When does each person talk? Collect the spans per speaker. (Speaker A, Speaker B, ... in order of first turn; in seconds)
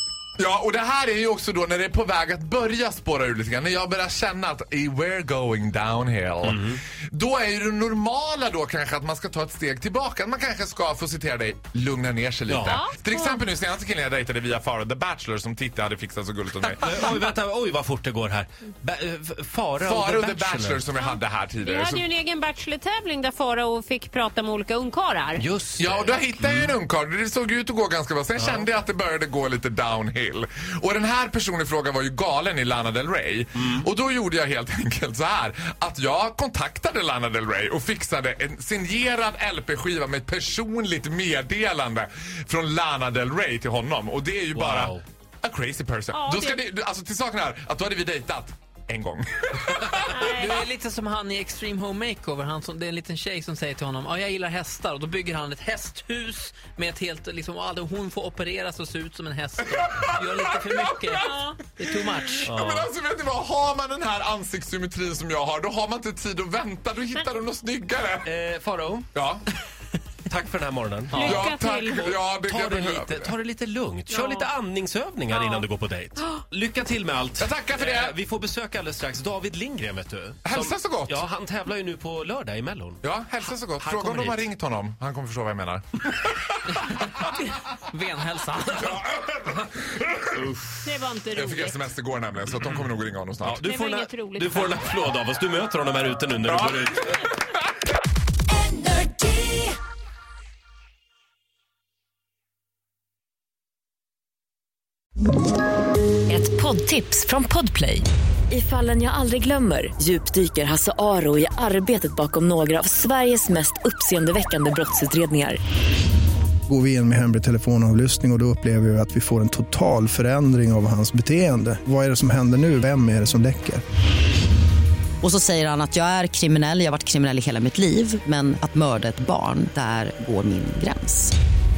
Speaker A: 0.4-17.2, 19.8-22.0, 25.8-49.7, 59.8-61.2, 62.4-68.3, 69.2-69.4, 71.3-73.2, 77.4-78.1, 80.5-81.2, 83.0-85.8, 91.4-93.6
Speaker B: 6.4-6.8, 12.5-12.8, 16.6-20.9, 25.4-26.8, 28.4-28.7, 33.6-33.9, 44.5-45.0, 62.5-62.9, 68.2-69.1, 70.3-71.5, 72.3-83.0, 83.8-84.5, 90.4-90.7, 92.6-92.9, 93.4-97.2
Speaker C: 12.6-13.4, 20.9-25.5, 46.1-46.7, 50.1-50.6, 61.2-61.6, 67.2-67.4, 71.1-72.2, 74.1-74.5, 90.8-91.9, 93.6-94.9
Speaker D: 50.2-62.5, 86.7-89.0
Speaker E: 98.8-99.6, 106.3-115.6
Speaker F: 116.7-123.8
Speaker G: 125.2-131.3